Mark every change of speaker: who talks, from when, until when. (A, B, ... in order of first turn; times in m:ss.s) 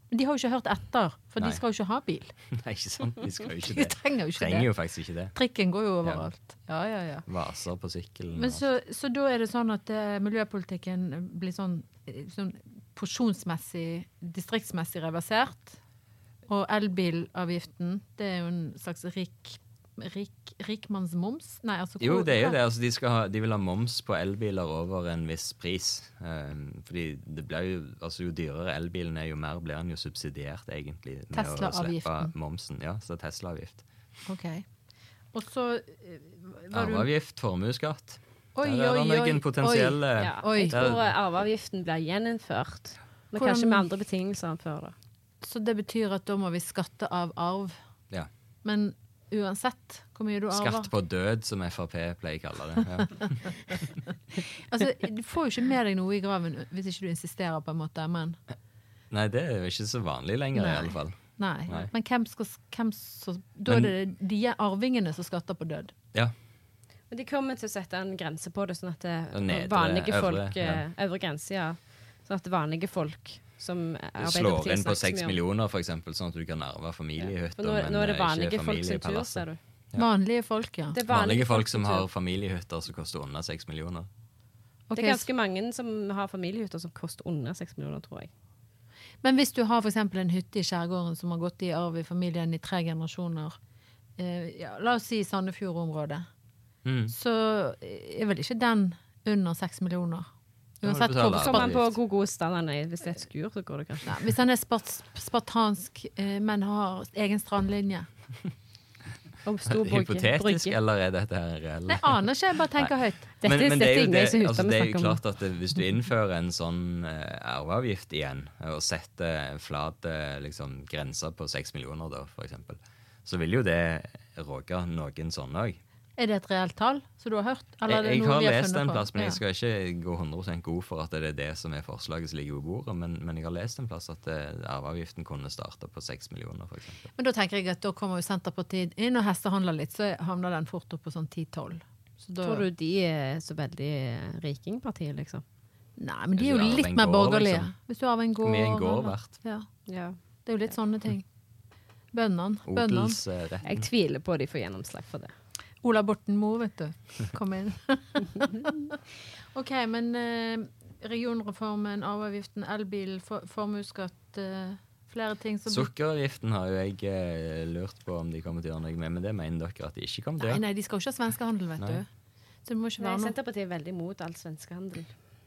0:00.1-0:02.3 A
0:02.5-0:05.3 B
0:03.7-0:04.7 A
0:05.3-0:07.2 A
0:07.3-0:08.7 B
0:08.4-0:15.8 A
0:16.5-0:22.6 A
0:22.0-0:33.8 B
0:31.3-0:32.3 A
0:34.3-0:34.6 A
0:35.3-0:37.1 A
0:36.7-0:41.1 B
0:38.6-0:40.9 A
0:40.2-0:45.0 C
0:43.4-0:43.9 A
0:45.4-0:47.8 A
0:48.6-0:50.9 A
0:50.5-0:53.3 B
0:54.7-0:58.4 A
0:59.1-1:01.9 B
1:00.6-1:05.9 A
1:03.7-1:03.9 B
1:07.1-1:15.4 C
1:09.3-1:10.8 B
1:14.2-1:20.1 B
1:17.2-1:19.6 C
1:20.0-1:21.0 A
1:20.9-1:22.1 C
1:21.1-1:24.1 B
1:24.9-1:25.3 A
1:25.0-1:28.3 C
1:29.2-1:33.6 A
1:34.2-1:36.3 A
1:36.8-1:37.1 B
1:37.1-1:40.3 A
1:40.8-1:41.8 A
1:40.8-1:42.0 B
1:41.4-1:44.1 C
1:44.0-1:48.1 A
1:49.4-1:50.8 C
1:49.7-2:05.8 B
1:51.9-1:53.3 A
1:53.4-1:55.2 C
2:06.2-2:09.4 A
2:07.9-2:17.0 B
2:17.2-2:22.7 A
2:22.4-2:25.4 C
2:26.0-2:29.7 A
2:26.4-2:27.7 B
2:28.4-2:29.4 B
2:29.9-2:30.2 C
2:30.4-2:31.2 A
2:32.1-2:33.2 A
2:32.7-2:33.9 B
2:33.6-2:35.3 C
2:35.8-2:39.0 A
2:39.5-2:45.9 A
2:45.7-2:50.6 B
2:50.4-2:52.1 A
2:52.7-2:53.4 A
2:53.0-2:55.1 C